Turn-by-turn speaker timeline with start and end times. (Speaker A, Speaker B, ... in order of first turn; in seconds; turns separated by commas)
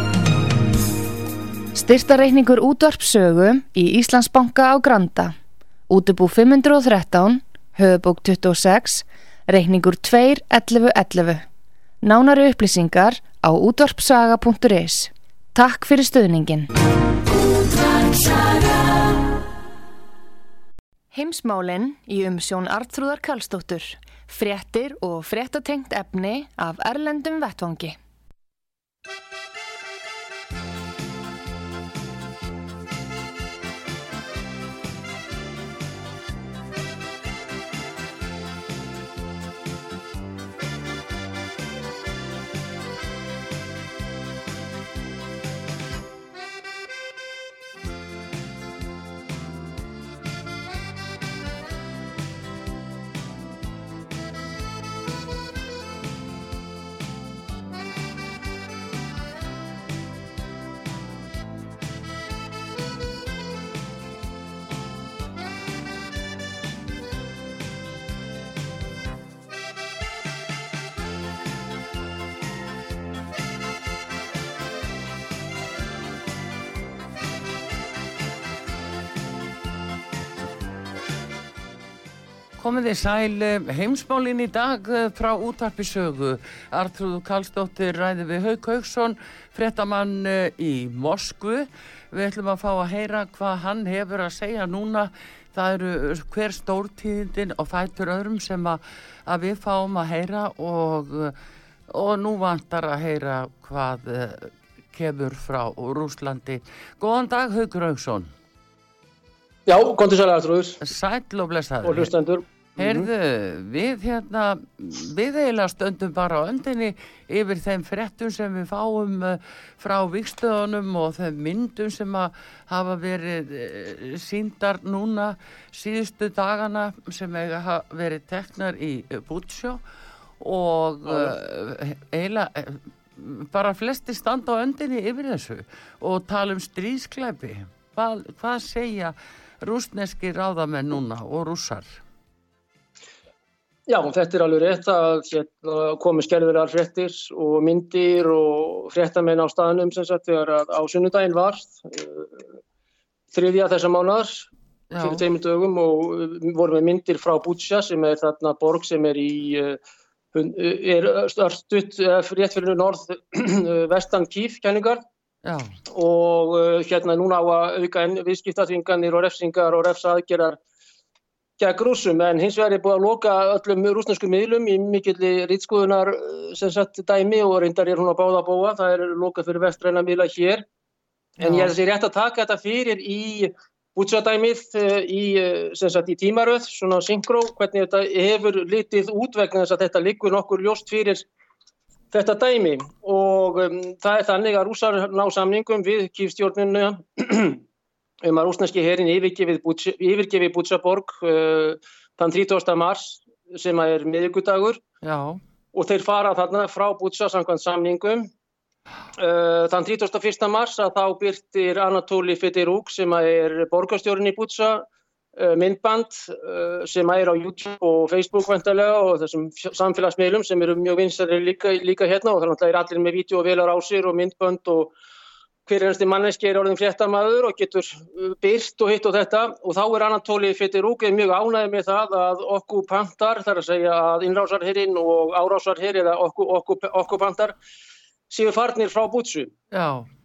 Speaker A: 1.7-5.4, Speaker A: 5.9-11.5, Speaker A: 12.0-16.7, Speaker A: 17.3-19.1, Speaker A: 21.1-28.0, Speaker B: 82.6-101.3, Speaker B: 101.9-108.3, Speaker C: 109.7-110.8, Speaker B: 110.8-112.1, Speaker C: 111.8-113.1, Speaker B: 112.8-129.8, Speaker B: 130.4-142.0, Speaker C: 131.1-131.3, Speaker C: 143.9-152.4, Speaker C: 153.3-159.8, Speaker B: 154.9-155.2, Speaker C: 160.3-165.0, Speaker B: 165.4-165.7, Speaker C: 165.9-170.6, Speaker C: 171.6-180.6, Speaker C: 181.4-191.3, Speaker B: 181.4-181.7, Speaker C: 192.1-197.6, Speaker C: 198.2-204.8, Speaker B: 205.0-205.4, Speaker C: 205.7-208.3, Speaker C: 209.2-214.8, Speaker C: 215.4-224.9, Speaker C: 225.7-237.5, Speaker C: 238.3-239.5, Speaker B: 239.7-240.1